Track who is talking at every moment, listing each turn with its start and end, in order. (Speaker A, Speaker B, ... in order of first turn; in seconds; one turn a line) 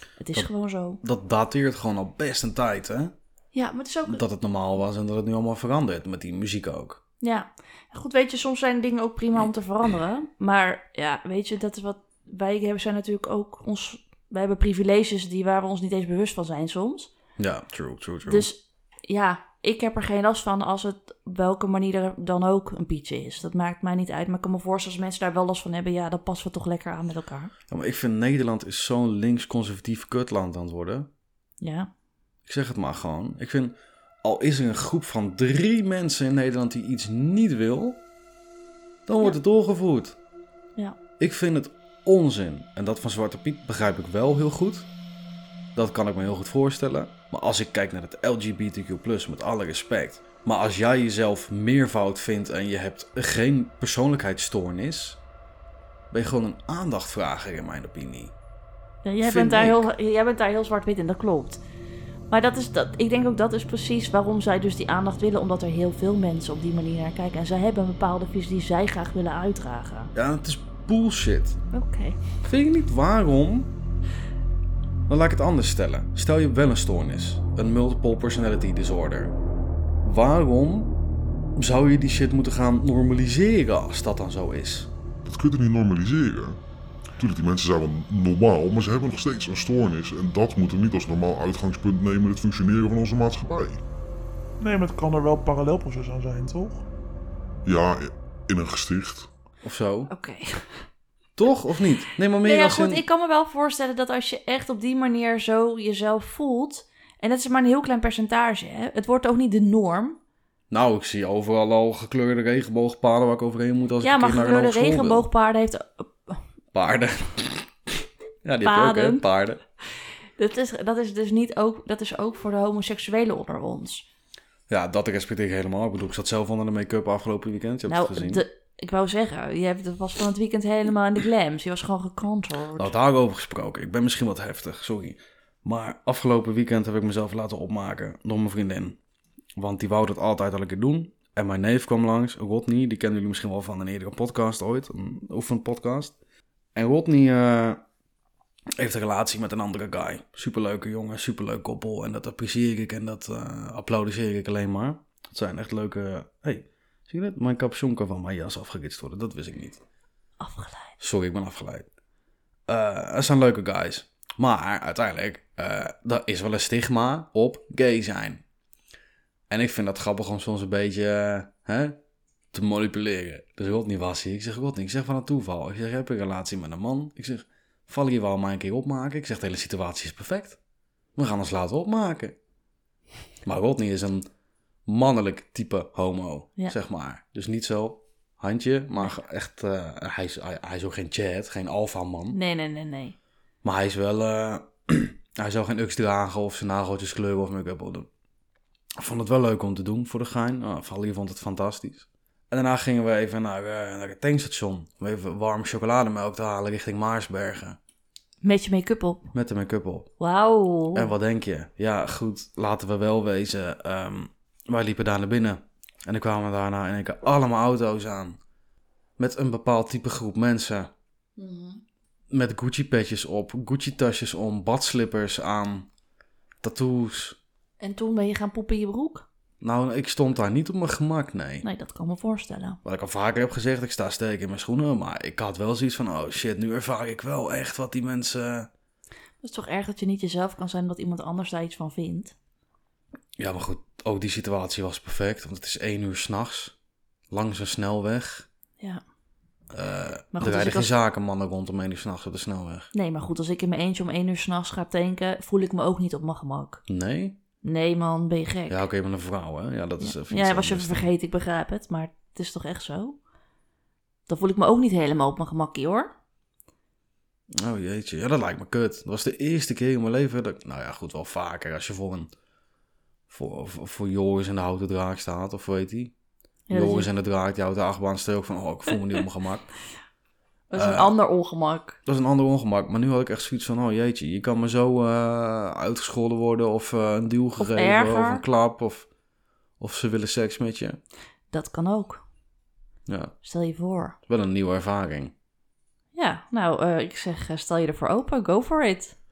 Speaker A: 0.2-1.0
Speaker B: 1.0-3.1
Speaker A: 3.5-4.2
Speaker B: 4.0-7.0
Speaker A: 7.2-17.1
Speaker B: 17.4-18.5
Speaker A: 18.2-27.5
Speaker B: 27.7-31.1
Speaker A: 31.6-31.9
Speaker B: 32.4-38.0
Speaker B: 39.1-40.2
Speaker B: 41.2-44.9
Speaker B: 45.7-55.2
Speaker B: 56.1-58.3
Speaker A: 59.0-61.6
Speaker B: 59.2-59.9
Speaker A: 62.3-70.1
Speaker B: 70.1-71.6
Speaker A: 71.7-72.2
Speaker B: 72.4-73.7
Speaker B: 75.1-79.3
Speaker B: 80.0-81.0
Speaker B: 81.5-84.9
Speaker C: 85.2-86.6
Speaker C: 87.2-93.8
Speaker D: 94.6-96.8
Speaker C: 97.6-99.3
Speaker B: 99.6-100.1
Speaker A: 100.1-100.8
Speaker B: 101.4-103.0
Speaker A: 102.4-110.2
Speaker B: 110.7-115.3
Speaker A: 114.0-116.4
Speaker B: 116.7-119.6
Speaker A: 118.6-119.2
Speaker A: 120.4-124.0
Speaker B: 124.7-128.4
Speaker A: 127.8-132.9
Speaker B: 132.8-139.0
Speaker B: 139.6-146.1
Speaker B: 146.7-147.8
Speaker B: 148.8-159.8
Speaker A: 160.4-160.9
Speaker B: 161.0-161.9
Speaker B: 162.7-168.4
Speaker B: 169.5-172.0
Speaker B: 172.5-180.6
Speaker B: 181.2-182.3
Speaker B: 183.4-184.3
Speaker B: 184.8-192.4
Speaker A: 192.3-193.2
Speaker B: 193.6-198.1
Speaker B: 199.0-207.8
Speaker A: 208.4-209.3
Speaker B: 209.3-210.1
Speaker A: 210.2-211.1
Speaker B: 210.9-218.4
Speaker B: 219.2-220.9
Speaker A: 221.4-221.8
Speaker B: 222.3-225.9
Speaker B: 226.6-227.4
Speaker A: 227.8-229.2
Speaker B: 229.6-231.7
Speaker A: 231.6-232.8
Speaker B: 232.8-238.7
Speaker A: 239.4-242.3
Speaker B: 243.4-246.7
Speaker B: 247.3-248.5
Speaker B: 249.7-252.9
Speaker A: 250.3-250.9
Speaker A: 252.9-256.8
Speaker B: 256.9-257.4
Speaker A: 257.6-258.8
Speaker B: 258.7-261.0
Speaker A: 260.0-263.2
Speaker A: 264.3-266.1
Speaker B: 267.5-272.3
Speaker B: 273.3-276.1
Speaker A: 276.7-277.1
Speaker B: 276.7-279.7
Speaker A: 280.7-282.0
Speaker B: 280.7-281.1
Speaker B: 282.1-289.1
Speaker A: 287.6-288.4
Speaker B: 289.8-291.0
Speaker A: 291.5-292.2
Speaker B: 293.1-293.3
Speaker A: 293.4-294.1
Speaker B: 294.3-295.3
Speaker A: 296.1-299.1